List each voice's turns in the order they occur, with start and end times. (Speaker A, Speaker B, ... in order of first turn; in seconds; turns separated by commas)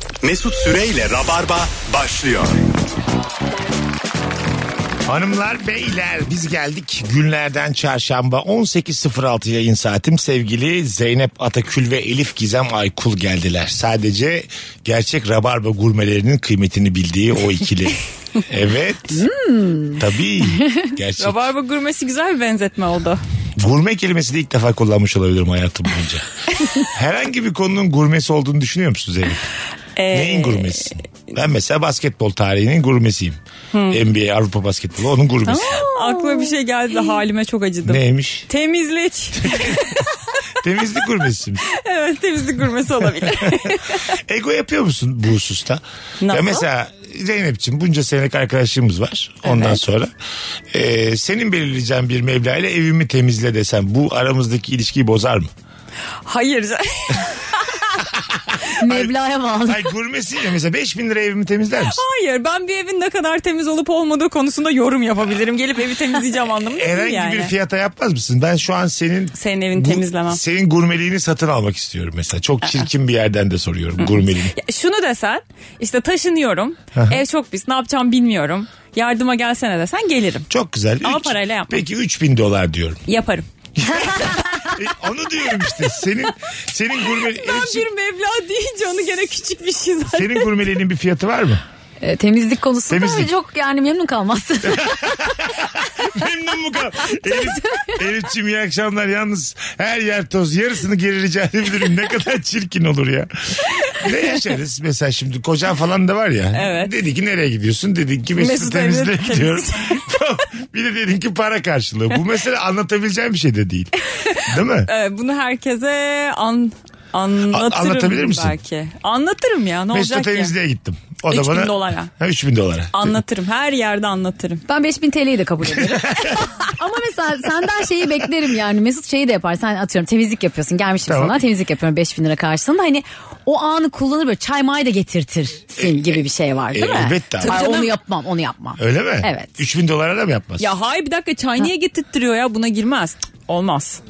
Speaker A: 0.2-2.6, Speaker B: 5.1-19.3, Speaker C: 19.1-20.0, Speaker B: 19.9-21.5, Speaker C: 20.6-20.9, Speaker D: 21.2-23.2, Speaker B: 23.6-29.4, Speaker D: 30.0-30.9, Speaker B: 30.1-33.4, Speaker D: 33.7-34.0, Speaker B: 33.9-35.8, Speaker C: 35.5-36.5, Speaker D: 35.5-40.1, Speaker B: 37.9-38.5, Speaker B: 39.4-40.0, Speaker B: 40.6-41.6, Speaker D: 41.7-44.2, Speaker B: 43.2-50.1, Speaker D: 46.2-46.6, Speaker D: 49.5-49.8, Speaker B: 50.7-55.5, Speaker D: 56.2-58.0, Speaker B: 58.5-62.0, Speaker C: 58.8-59.9, Speaker D: 61.9-67.5, Speaker B: 66.8-74.5, Speaker D: 69.4-70.4, Speaker D: 74.0-80.5, Speaker B: 80.5-83.0, Speaker D: 81.0-81.8, Speaker D: 83.1-83.5, Speaker B: 83.8-87.9, Speaker D: 84.0-84.6, Speaker D: 87.1-90.5, Speaker B: 90.1-91.6, Speaker C: 92.0-95.3, Speaker B: 92.9-93.3, Speaker B: 94.6-114.9, Speaker D: 106.5-106.9, Speaker D: 108.4-110.0, Speaker D: 114.1-120.5, Speaker B: 117.5-118.6, Speaker B: 119.9-123.2, Speaker D: 121.3-122.1, Speaker D: 122.9-124.6, Speaker C: 124.7-139.6, Speaker B: 125.7-126.5, Speaker B: 131.1-131.4, Speaker B: 135.8-136.2, Speaker B: 136.7-137.7, Speaker D: 137.4-138.0, Speaker B: 138.8-140.7, Speaker D: 140.6-144.0